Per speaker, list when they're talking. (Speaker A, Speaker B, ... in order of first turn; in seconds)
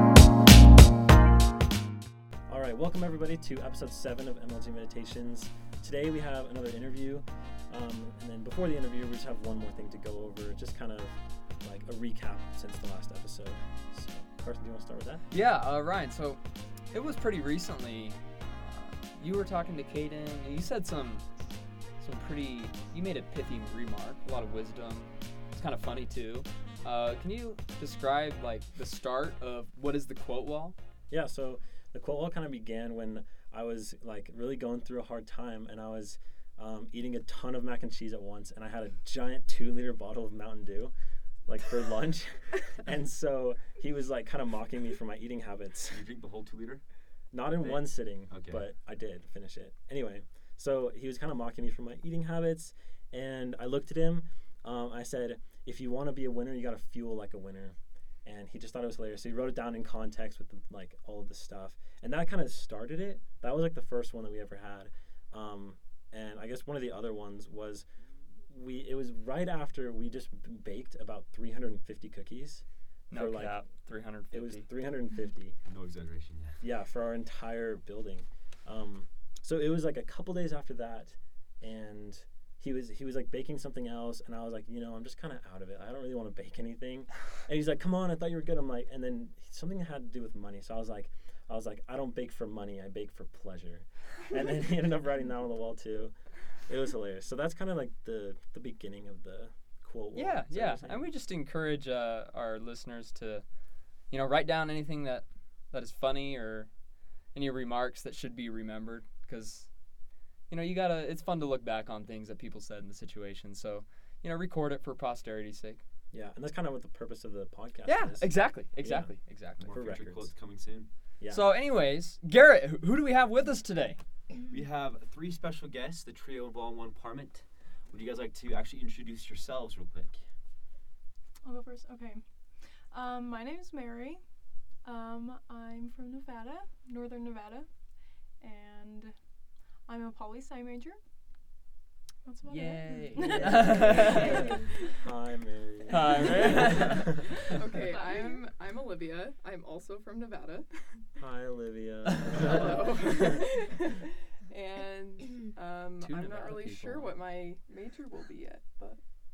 Speaker A: 2.5-15.2, 31.1-40.9, 41.5-46.0, 47.3-67.9, 68.5-73.7, 74.3-75.6, 76.6-96.1, 96.7-101.1, 116.1-119.1, 119.7-120.3, 121.2-121.6, 143.2-147.2, 151.2-153.3
Speaker B: 15.3-16.4, 16.9-21.2, 22.0-30.8, 73.1-74.7, 100.2-103.5, 104.1-106.7, 107.3-109.7, 110.5-115.8, 117.9-119.7, 121.3-124.0, 142.5-144.6, 145.9-147.1, 152.1-152.4, 156.0-157.2
Speaker C: 45.9-46.8, 47.6-48.6, 75.7-76.6, 119.6-120.9, 124.5-130.2
Speaker D: 131.4-132.2, 132.9-134.2, 134.8-137.7, 138.4-139.2, 139.9-141.0, 142.2-144.6, 147.7-148.5
Speaker E: 147.5-150.7, 152.3-153.9, 154.5-159.0